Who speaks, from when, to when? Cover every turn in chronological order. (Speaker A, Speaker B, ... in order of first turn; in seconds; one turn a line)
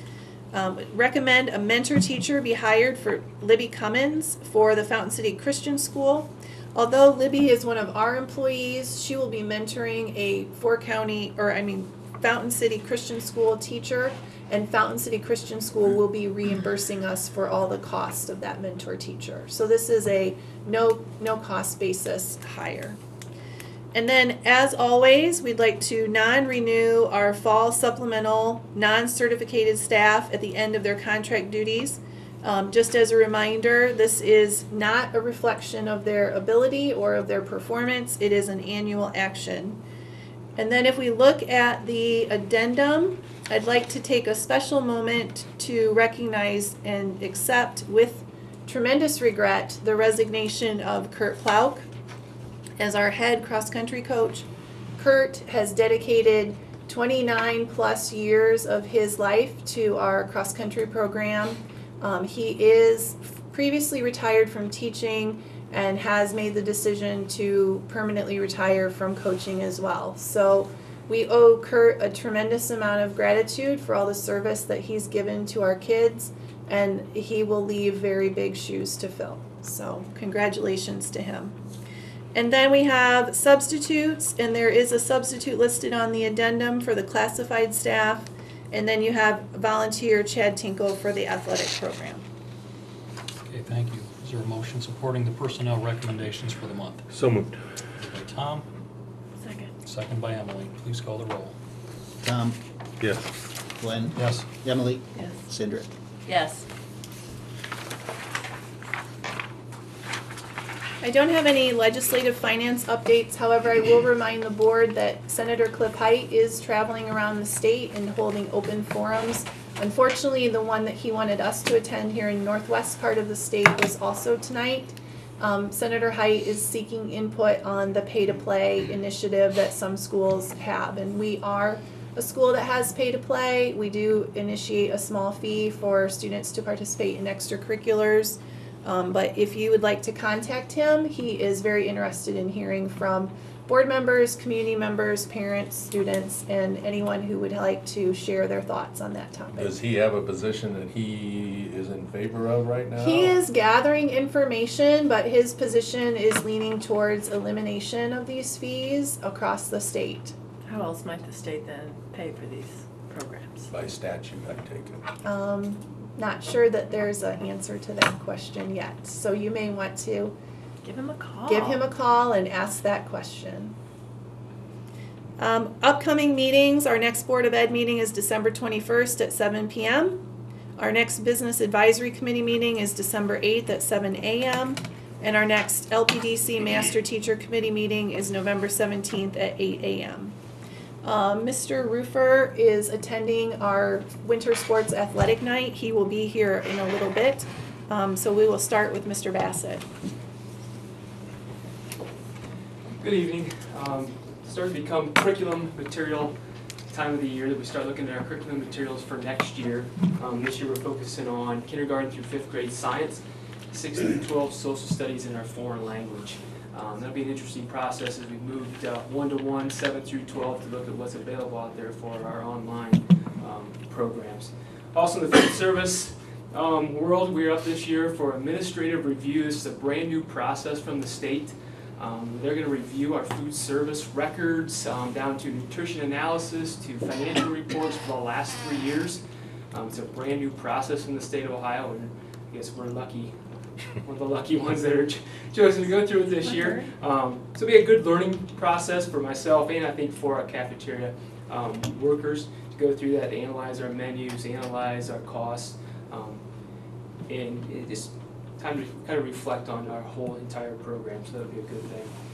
Speaker A: 0.5-23.0
Speaker A: 23.9-39.8
Speaker A: 40.6-51.9
Speaker A: 52.8-81.6
Speaker A: 82.3-92.2
Speaker B: 93.5-97.0
Speaker C: 97.1-97.5
Speaker B: 98.0-98.7
Speaker D: 99.4-99.7
Speaker B: 99.8-101.5
Speaker E: 102.2-102.6
Speaker C: 103.0-103.3
Speaker E: 103.8-105.9
Speaker B: 104.2-104.5
Speaker D: 106.3-106.7
Speaker A: 111.0-149.8
Speaker C: 149.6-153.4
Speaker A: 153.0-160.3
Speaker D: 160.7-163.7
Speaker C: 163.7-165.0
Speaker A: 165.2-170.3
Speaker D: 170.8-171.9
Speaker A: 171.5-173.7
Speaker A: 175.4-180.2
Speaker A: 180.8-190.3
Speaker A: 191.0-199.8
Speaker F: 203.0-206.3
Speaker F: 206.9-239.2
Speaker F: 239.7-243.3
Speaker F: 244.0-256.4
Speaker D: 246.5-246.8
Speaker F: 257.3-262.1